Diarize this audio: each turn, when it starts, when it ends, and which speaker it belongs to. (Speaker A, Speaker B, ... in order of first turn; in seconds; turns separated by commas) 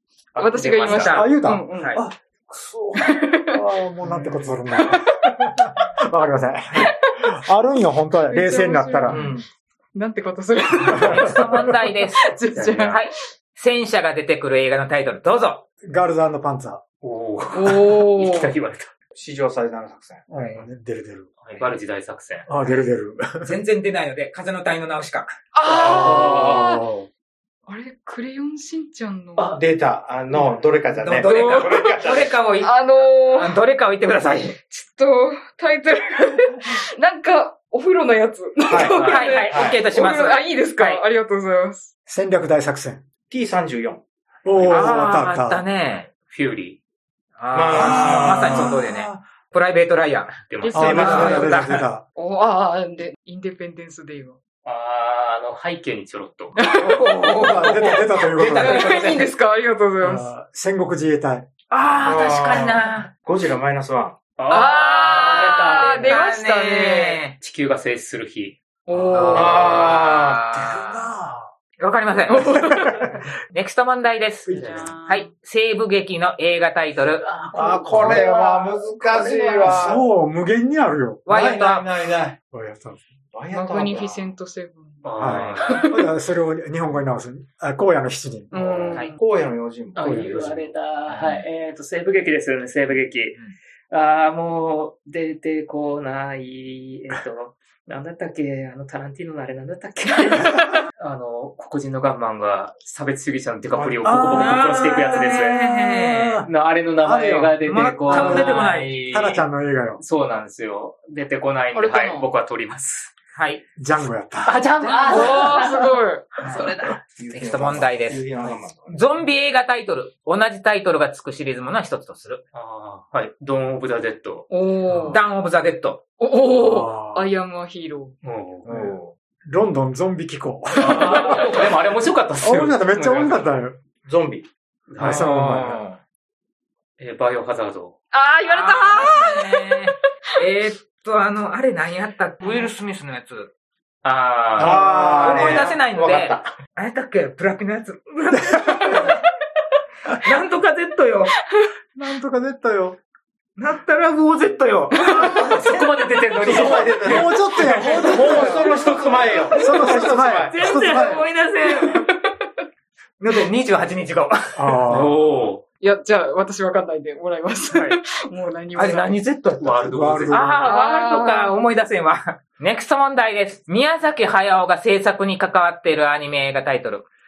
Speaker A: 0.3-1.3, Speaker B: 0.3-2.0, Speaker C: 0.8-1.3, Speaker D: 1.0-9.2, Speaker B: 3.0-3.6, Speaker A: 4.1-4.5, Speaker B: 6.8-7.1, Speaker B: 8.3-9.3, Speaker E: 9.1-9.5, Speaker B: 9.9-13.1, Speaker D: 11.0-11.5, Speaker C: 11.1-12.2, Speaker A: 12.5-13.0, Speaker C: 12.9-15.6, Speaker D: 15.8-16.8, Speaker A: 17.0-18.9, Speaker B: 17.5-18.5, Speaker E: 19.1-20.2, Speaker D: 20.3-21.3, Speaker C: 20.4-20.6, Speaker A: 21.4-22.5, Speaker D: 22.5-23.6, Speaker C: 23.4-25.3, Speaker B: 25.5-26.9, Speaker D: 25.8-27.1, Speaker A: 25.8-26.6, Speaker B: 27.7-29.6, Speaker E: 29.6-32.4, Speaker C: 31.0-34.6, Speaker B: 31.3-31.8, Speaker B: 32.6-33.6, Speaker B: 34.7-41.9, Speaker D: 38.7-39.1, Speaker C: 39.0-41.0, Speaker E: 39.5-39.8, Speaker D: 42.1-43.0, Speaker E: 43.3-44.0, Speaker D: 44.5-45.6, Speaker C: 44.6-46.1, Speaker A: 46.3-46.8, Speaker C: 47.4-51.9, Speaker E: 47.5-48.8, Speaker D: 47.7-49.2, Speaker A: 50.5-51.2, Speaker B: 50.6-51.6, Speaker D: 50.7-52.0, Speaker E: 50.8-51.6, Speaker B: 52.1-54.4, Speaker A: 54.6-56.6, Speaker B: 56.6-57.4, Speaker C: 56.8-59.3, Speaker D: 57.2-58.9, Speaker B: 58.5-60.3, Speaker D: 60.0-62.2, Speaker C: 61.7-63.1, Speaker E: 62.0-64.2, Speaker A: 64.4-66.2, Speaker B: 64.5-67.3, Speaker C: 65.1-67.4, Speaker A: 67.4-68.6, Speaker B: 68.9-70.0, Speaker C: 69.1-71.0, Speaker E: 69.3-70.4, Speaker A: 69.3-69.9, Speaker D: 70.5-71.5, Speaker C: 71.8-77.3, Speaker B: 72.3-73.1, Speaker D: 74.5-74.9, Speaker B: 74.6-75.3, Speaker A: 77.0-79.4, Speaker E: 77.5-80.0, Speaker D: 77.8-78.3, Speaker D: 79.6-81.6, Speaker C: 81.3-81.9, Speaker E: 81.3-82.3, Speaker D: 82.4-83.0, Speaker E: 83.3-84.3, Speaker B: 83.5-86.0, Speaker A: 85.0-85.9, Speaker D: 85.2-88.6, Speaker B: 88.5-89.2, Speaker E: 89.1-90.6, Speaker A: 90.0-93.4, Speaker D: 90.0-90.7, Speaker C: 91.1-91.5, Speaker A: 93.9-105.6, Speaker E: 103.8-104.2, Speaker D: 104.0-110.0, Speaker C: 104.3-106.4, Speaker A: 106.4-109.5, Speaker C: 108.1-108.9, Speaker A: 110.0-113.1, Speaker B: 111.7-112.3, Speaker C: 113.3-113.6, Speaker D: 113.8-115.1, Speaker A: 114.4-115.9, Speaker B: 115.0-116.9, Speaker C: 115.1-115.7, Speaker C: 116.4-116.7, Speaker A: 116.6-116.9, Speaker E: 117.1-119.1, Speaker C: 117.3-122.4, Speaker A: 122.5-124.5, Speaker B: 124.5-125.2, Speaker D: 124.9-125.2, Speaker C: 125.1-126.0, Speaker B: 126.2-128.1, Speaker D: 126.5-127.3, Speaker A: 128.2-128.7, Speaker C: 128.7-129.1, Speaker D: 128.7-131.4, Speaker B: 130.8-131.5, Speaker A: 130.8-133.6, Speaker D: 132.4-133.8, Speaker E: 134.1-134.5, Speaker A: 134.9-135.4, Speaker D: 135.0-135.8, Speaker C: 135.0-136.0, Speaker A: 137.0-138.0, Speaker B: 138.1-139.8, Speaker C: 138.5-143.5, Speaker A: 144.0-145.6, Speaker E: 144.6-146.5, Speaker C: 144.6-149.2, Speaker D: 145.3-145.7, Speaker D: 148.3-149.1, Speaker C: 150.1-151.4, Speaker D: 151.9-153.0, Speaker C: 153.6-155.6, Speaker A: 155.1-157.6, Speaker E: 156.4-157.4, Speaker D: 156.4-158.6, Speaker B: 157.8-158.7, Speaker C: 157.8-162.1, Speaker E: 158.0-160.6, Speaker D: 159.5-161.3, Speaker B: 161.7-162.6, Speaker C: 163.2-165.0, Speaker D: 164.6-165.2, Speaker A: 164.9-165.6, Speaker B: 165.8-169.2, Speaker C: 168.8-169.7, Speaker A: 169.6-170.5, Speaker D: 169.6-170.7, Speaker C: 170.3-177.1, Speaker B: 170.6-171.6